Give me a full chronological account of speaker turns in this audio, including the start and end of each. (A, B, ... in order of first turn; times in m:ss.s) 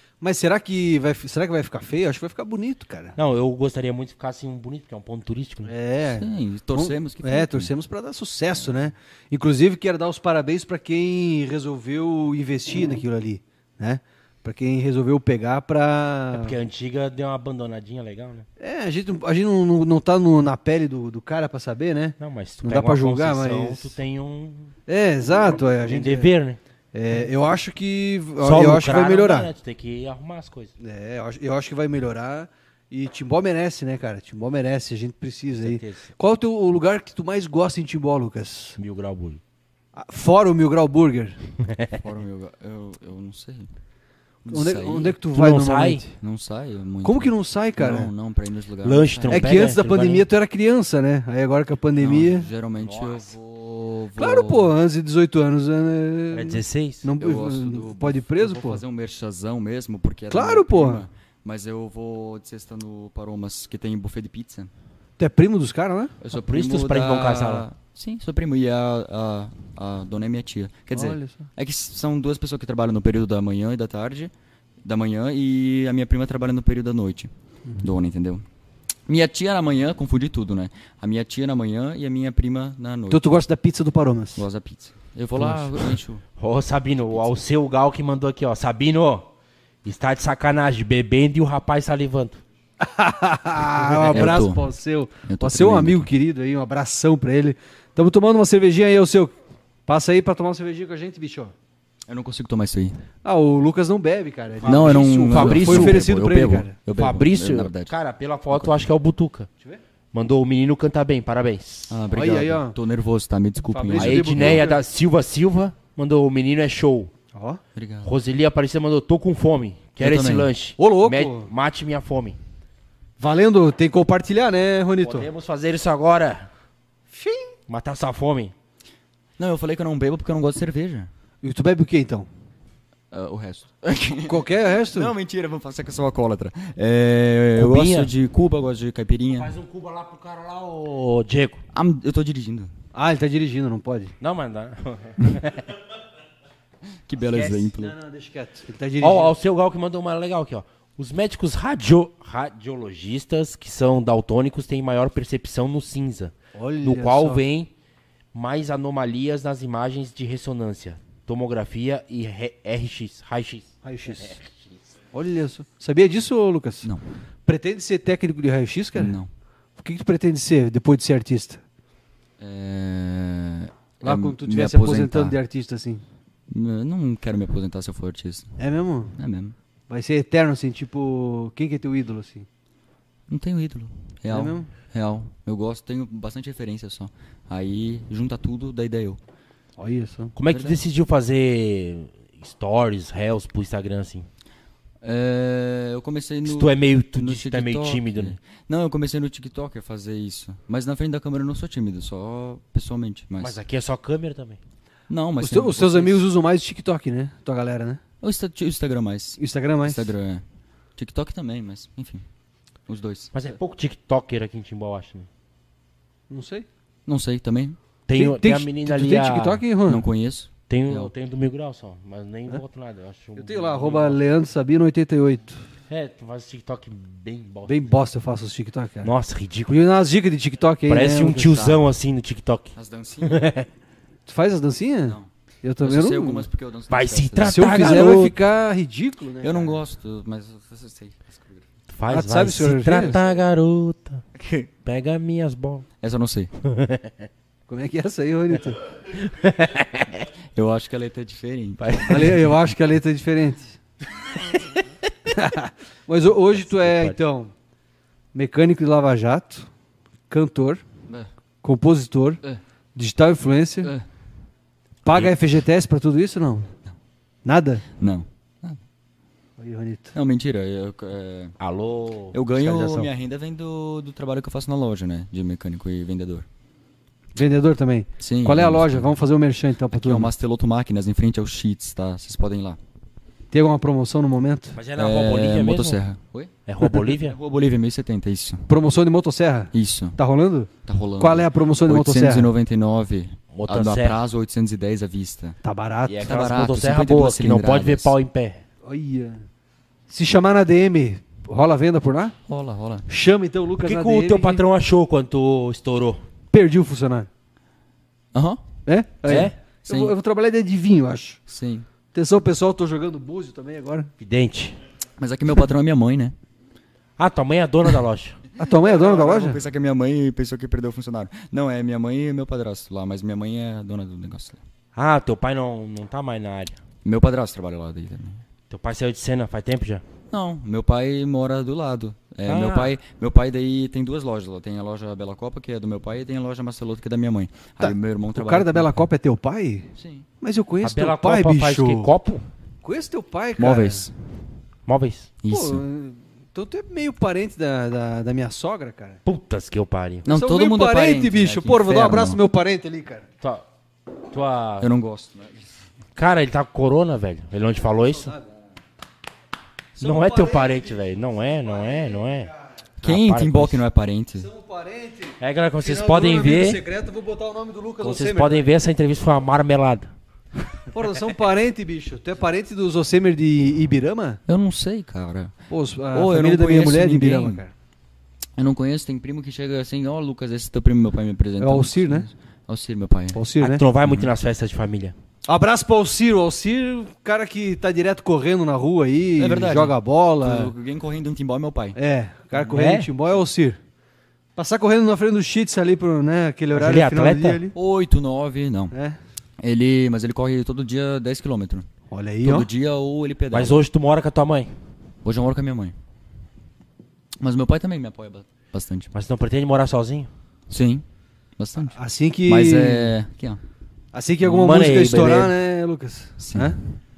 0:00.2-0:03.1 A
0:03.2-0:05.7 B
0:05.6-0:16.5 A
0:06.0-0:07.7 C
0:16.3-0:18.4 B
0:18.6-0:23.9 A
0:22.2-0:24.8 B
0:24.9-0:26.3 A
0:25.6-0:26.6 B
0:26.9-0:29.5 A
0:28.4-0:30.7 B
0:30.8-0:38.8 A
0:35.5-0:36.1 B
0:38.8-0:39.4 B
0:39.9-0:41.4 A
0:41.6-0:42.0 B
0:42.0-0:43.7 C
0:44.4-0:45.2 C
0:44.5-0:46.1 A
0:45.3-0:46.0 B
0:46.2-0:49.6 C
0:47.0-0:48.1 A
0:48.8-0:50.2 B
0:49.3-0:52.5 A
0:52.0-0:54.7 C
0:53.0-0:53.2 B
0:54.2-0:58.8 A
0:56.3-0:57.1 B
0:57.2-1:04.7 C
1:00.3-1:01.0 A
1:05.2-1:06.2 A
1:06.2-1:14.3 C
1:06.3-1:07.7 B
1:10.9-1:11.5 A
1:14.8-1:17.3 C
1:17.8-1:18.4 C
1:19.1-1:23.4 C
1:23.1-1:24.4 A
1:24.4-1:26.2 C
1:25.4-1:25.9 A
1:26.4-1:29.3 B
1:29.8-1:32.4 B
1:32.8-1:39.3 A
1:34.1-1:34.6 C
1:35.2-1:36.1 C
1:39.9-1:41.5 A
1:42.1-1:43.0 C
1:43.2-1:46.7 A
1:44.6-1:46.0 B
1:44.6-1:47.9 C
1:46.9-1:49.5 B
1:48.5-1:48.8 C
1:50.1-1:52.0 B
1:51.9-1:54.7 C
1:52.1-1:52.8 A
1:53.7-1:54.8 A
1:53.9-1:57.1 B
1:57.3-1:57.6 A
1:57.7-1:58.1 C
1:58.0-2:02.4 B
2:00.0-2:00.5 C
2:00.8-2:01.5 A
2:03.2-2:05.3 A
2:05.0-2:06.5 B
2:07.1-2:07.5 A
2:07.7-2:08.5 B
2:09.4-2:11.1 C
2:11.4-2:12.3 A
2:13.1-2:19.5 C
2:14.2-2:15.1 A
2:17.6-2:18.1 B
2:19.4-2:21.6 B
2:21.7-2:22.7 C
2:22.9-2:24.1 A
2:24.2-2:25.6 B
2:27.0-2:28.0 C
2:27.3-2:29.4 A
2:29.0-2:37.7 B
2:36.5-2:37.4 A
2:38.3-2:44.8 B
2:43.8-2:44.4 A
2:45.1-2:46.9 A
2:47.4-2:49.2 A
2:48.9-2:49.3 C
2:49.8-2:51.6 A
2:52.4-2:55.4 C
2:54.0-2:56.0 A
2:56.5-2:58.6 C
2:58.6-2:59.2 A
2:59.2-2:59.5 C
2:59.9-3:02.5 A
3:03.3-3:09.2 C
3:04.3-3:04.7 A
3:09.8-3:10.3 A
3:10.4-3:14.3 B
3:10.5-3:10.8 C
3:15.0-3:23.6 C
3:16.5-3:18.4 B
3:23.4-3:24.6 B
3:25.1-3:26.2 C
3:25.4-3:28.0 A
3:28.2-3:30.4 C
3:29.4-3:30.1 A
3:31.0-3:32.2 C
3:32.9-3:33.3 C
3:33.3-3:35.3 B
3:36.3-3:36.7 A
3:37.0-3:37.8 C
3:38.1-3:39.6 B
3:38.1-3:40.0 A
3:39.8-3:41.1 C
3:40.7-3:44.2 B
3:43.4-3:45.6 A
3:45.9-3:47.8 B
3:47.7-3:49.1 A
3:49.0-3:49.7 B
3:49.7-3:51.8 A
3:50.9-3:53.7 B
3:52.8-3:53.5 C
3:54.3-3:56.5 A
3:55.8-3:58.1 C
3:56.9-3:58.3 B
3:57.4-3:59.8 A
3:59.4-4:01.6 C
4:01.9-4:04.2 B
4:02.1-4:03.2 A
4:04.4-4:04.7 C
4:04.8-4:05.8 B
4:06.0-4:06.5 C
4:06.6-4:07.3 B
4:07.7-4:08.8 A
4:09.2-4:10.2 B
4:10.5-4:12.4 C
4:11.8-4:12.3 B
4:12.1-4:13.8 A
4:15.3-4:17.5 A
4:16.7-4:17.1 B
4:18.3-4:19.7 A
4:20.3-4:20.8 A
4:21.6-4:22.4 A
4:22.9-4:23.9 A
4:25.0-4:26.7 A
4:27.4-4:27.8 A
4:28.0-4:28.8 C
4:29.6-4:30.2 A
4:30.1-4:31.5 C
4:31.6-4:33.1 B
4:32.3-4:36.4 C
4:37.3-4:40.3 A
4:38.2-4:39.1 C
4:39.9-4:42.8 C
4:43.5-4:44.8 A
4:44.7-4:46.0 B
4:45.0-4:48.7 C
4:46.6-4:47.4 B
4:48.7-4:52.5 A
4:49.7-4:50.2 C
4:50.8-4:55.6 C
4:53.5-4:54.2 B
4:55.6-4:56.3 A
4:56.1-4:58.6 B
4:56.2-4:58.1 C
4:58.8-4:59.4 A
5:00.1-5:02.4 A
5:02.5-5:03.1 C
5:03.1-5:04.6 A
5:03.8-5:06.2 B
5:06.5-5:07.3 A
5:08.3-5:08.6 C
5:08.8-5:11.4 A
5:09.3-5:09.5 B
5:09.3-5:10.1 C
5:11.5-5:11.9 C
5:12.1-5:14.1 A
5:14.2-5:14.8 B
5:15.2-5:16.3 C
5:17.2-5:18.4 B
5:18.6-5:19.6 A
5:18.9-5:24.6 C
5:25.0-5:26.8 B
5:27.0-5:28.4 C
5:28.7-5:30.0 B
5:30.3-5:39.0 C
5:32.4-5:32.9 B
5:37.8-5:42.1 A
5:40.0-5:40.3 C
5:40.8-5:42.4 B
5:42.8-5:44.1 A
5:43.6-5:44.1 C
5:44.9-5:45.3 B
5:45.4-5:45.8 C
5:45.5-5:49.2 A
5:49.2-5:50.2 B
5:50.2-5:52.4 C
5:50.3-5:53.2 A
5:53.4-5:53.6 B
5:54.3-5:54.9 B
5:54.8-5:55.7 C
5:56.2-5:58.4 B
6:00.0-6:01.0 A
6:00.0-6:03.8 B
6:01.8-6:02.1 A
6:03.0-6:04.5 C
6:04.4-6:08.7 A
6:05.4-6:06.8 B
6:08.0-6:10.1 B
6:10.9-6:14.4 A
6:14.5-6:15.5 C
6:15.7-6:17.7 A
6:16.1-6:17.6 C
6:18.6-6:23.4 C
6:21.6-6:22.3 A
6:23.3-6:23.8 A
6:23.6-6:25.1 B
6:24.0-6:24.3 C
6:25.4-6:30.7 A
6:29.4-6:32.0 C
6:31.9-6:33.8 A
6:32.7-6:33.1 B
6:34.6-6:37.8 A
6:36.7-6:37.6 B
6:37.7-6:38.9 C
6:38.9-6:39.2 A
6:39.6-6:41.9 C
6:42.1-6:42.7 A
6:42.4-6:43.8 C
6:43.5-6:44.7 B
6:45.2-6:45.9 C
6:47.4-6:49.1 C
6:49.1-6:50.3 B
6:50.7-6:51.0 C
6:51.6-6:53.6 C
6:51.9-6:53.1 A
6:54.1-6:56.8 A
6:54.4-6:55.5 B
6:56.4-6:56.8 C